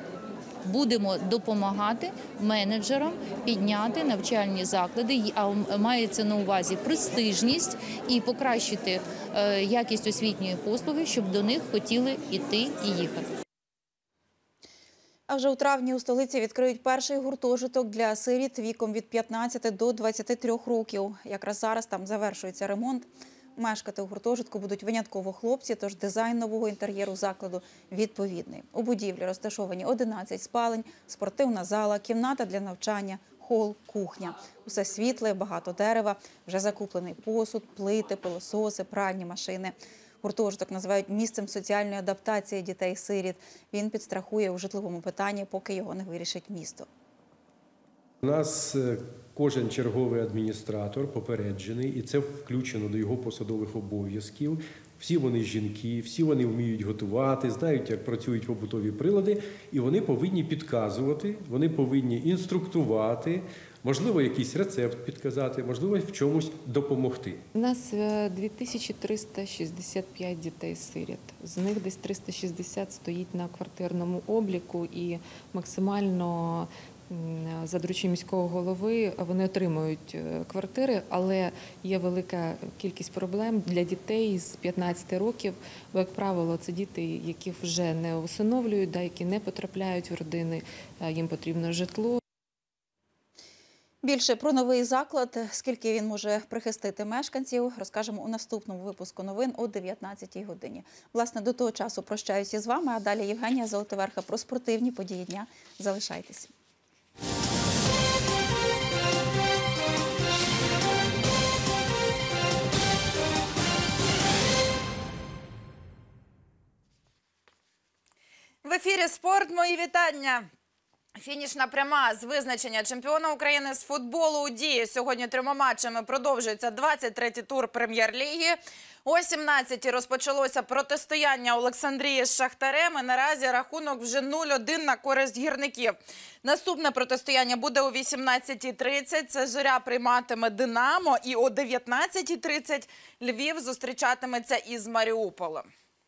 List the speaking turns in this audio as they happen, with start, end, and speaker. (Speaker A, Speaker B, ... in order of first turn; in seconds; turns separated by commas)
Speaker A: 0.6-13.3, Speaker B: 15.3-46.9, Speaker C: 48.2-67.4, Speaker D: 67.5-92.2, Speaker B: 94.0-106.5, Speaker E: 118.6-120.5, Speaker E: 121.2-145.7